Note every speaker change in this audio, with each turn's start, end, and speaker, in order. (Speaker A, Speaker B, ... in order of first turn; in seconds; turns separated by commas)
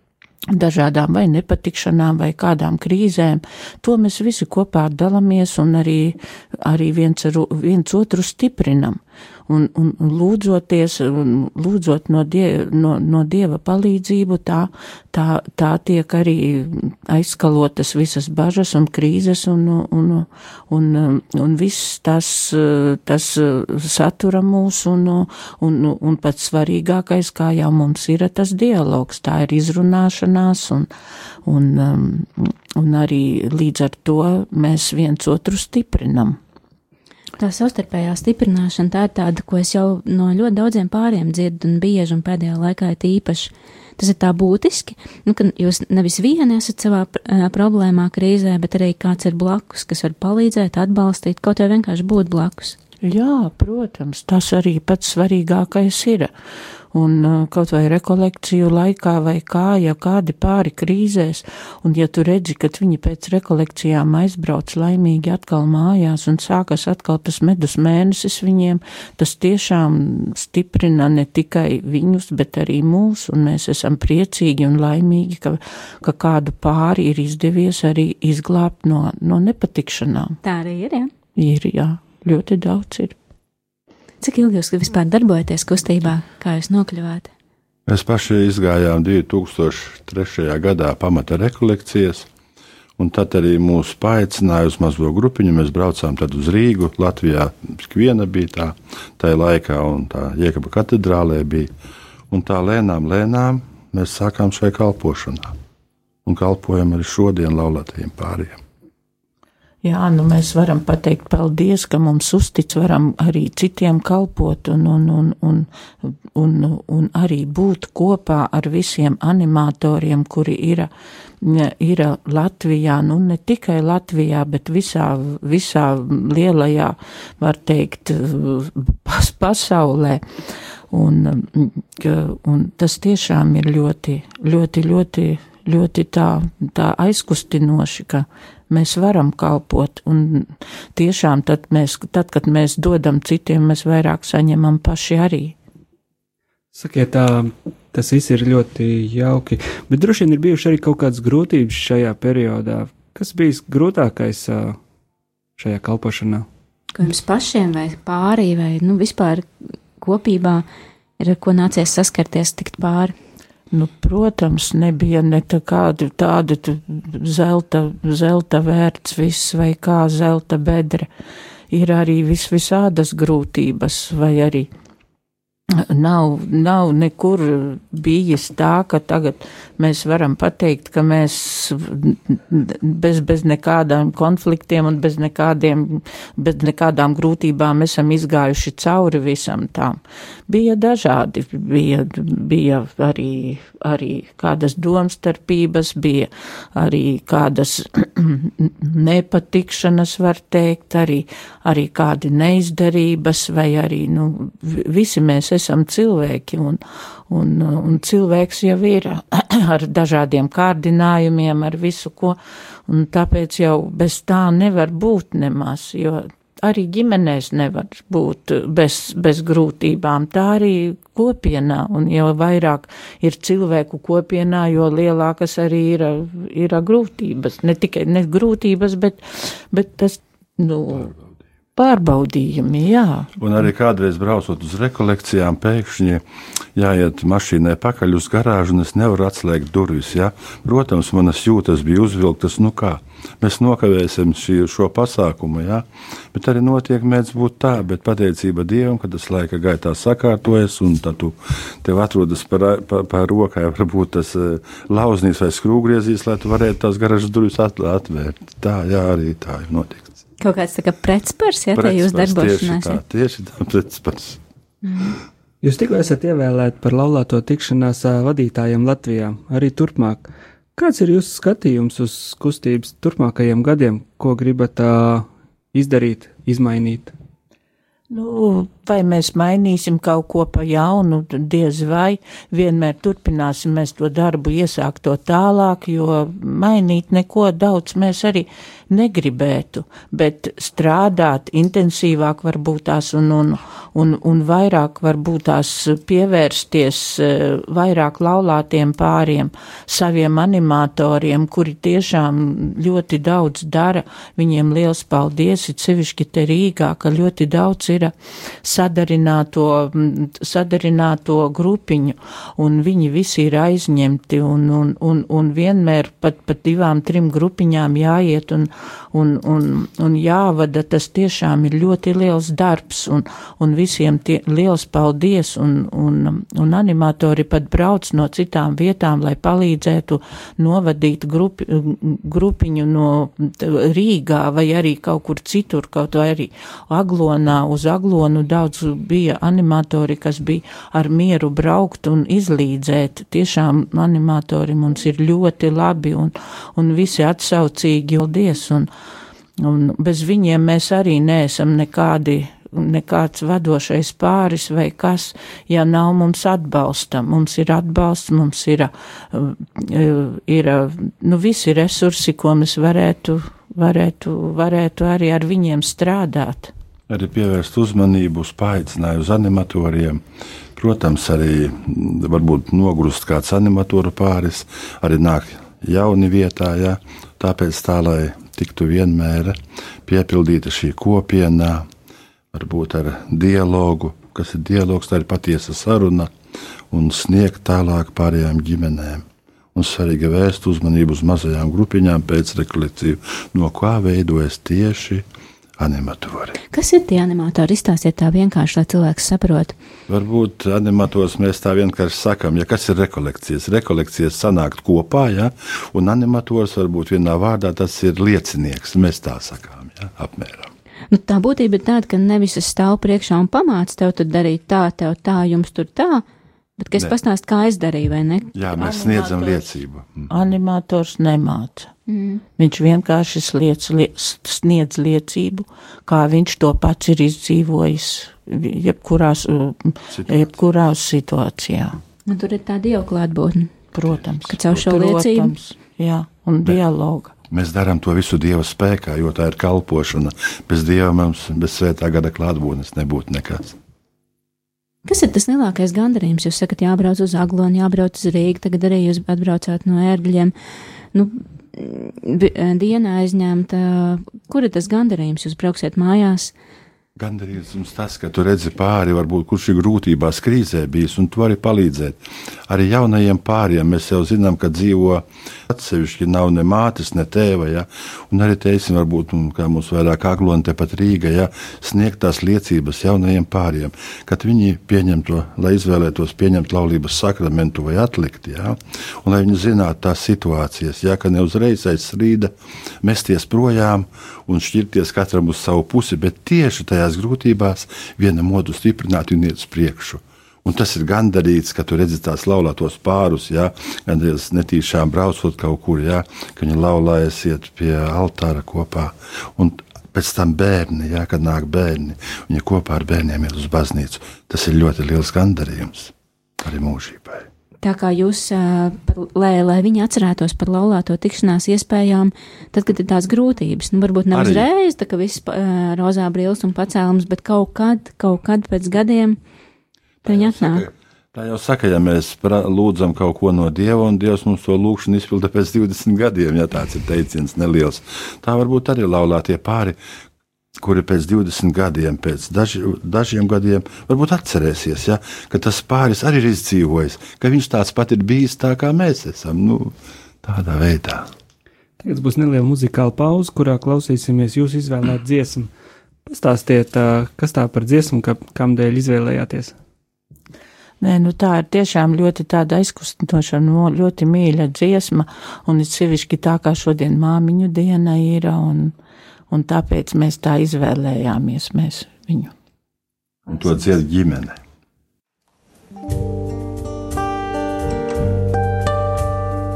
Speaker A: 0.5-30.9, Speaker A: 31.5-36.4, Speaker B: 37.4-52.8, Speaker A: 53.0-56.3, Speaker A: 56.9-80.4, Speaker B: 80.4-81.1, Speaker A: 81.4-83.1, Speaker B: 84.2-87.3, Speaker C: 87.9-92.3, Speaker C: 93.0-101.7, Speaker C: 102.3-105.6, Speaker C: 106.2-108.6, Speaker A: 109.8-120.9, Speaker A: 121.4-130.2, Speaker A: 130.9-145.6, Speaker D: 146.7-154.8, Speaker D: 155.6-156.5, Speaker B: 156.9-159.5, Speaker B: 160.0-160.7, Speaker B: 161.2-163.1, Speaker A: 163.7-171.1, Speaker A: 171.7-174.7, Speaker A: 175.8-231.1, Speaker A: 231.8-233.3, Speaker C: 233.4-236.2, Speaker C: 236.8-260.2, Speaker B: 260.4-263.0, Speaker C: 261.8-264.4, Speaker B: 264.8-265.2, Speaker D: 265.6-277.1, Speaker A: 278.1-348.9, Speaker A: 349.6-366.7, Speaker C: 367.1-370.2, Speaker C: 370.8-381.9, Speaker C: 382.5-386.3, Speaker C: 386.9-395.3, Speaker C: 395.8-396.6, Speaker B: 396.7-399.8, Speaker C: 400.1-410.7, Speaker B: 411.1-416.2, Speaker B: 416.8-418.5, Speaker C: 418.5-420.3, Speaker A: 418.8-419.7, Speaker A: 420.3-421.9, Speaker B: 422.1-422.4, Speaker A: 422.6-432.0, Speaker C: 430.1-430.5, Speaker B: 432.3-433.8, Speaker A: 433.9-437.3, Speaker B: 434.5-435.5, Speaker C: 437.5-443.8, Speaker B: 445.1-450.5, Speaker B: 451.1-456.5, Speaker C: 457.2-507.5, Speaker B: 507.8-519.4, Speaker C: 514.3-514.7, Speaker C: 520.2-530.0, Speaker B: 520.3-520.9, Speaker C: 530.8-541.3, Speaker D: 542.0-545.7, Speaker D: 546.2-549.8, Speaker A: 551.0-558.9, Speaker A: 559.5-562.5, Speaker C: 563.5-564.6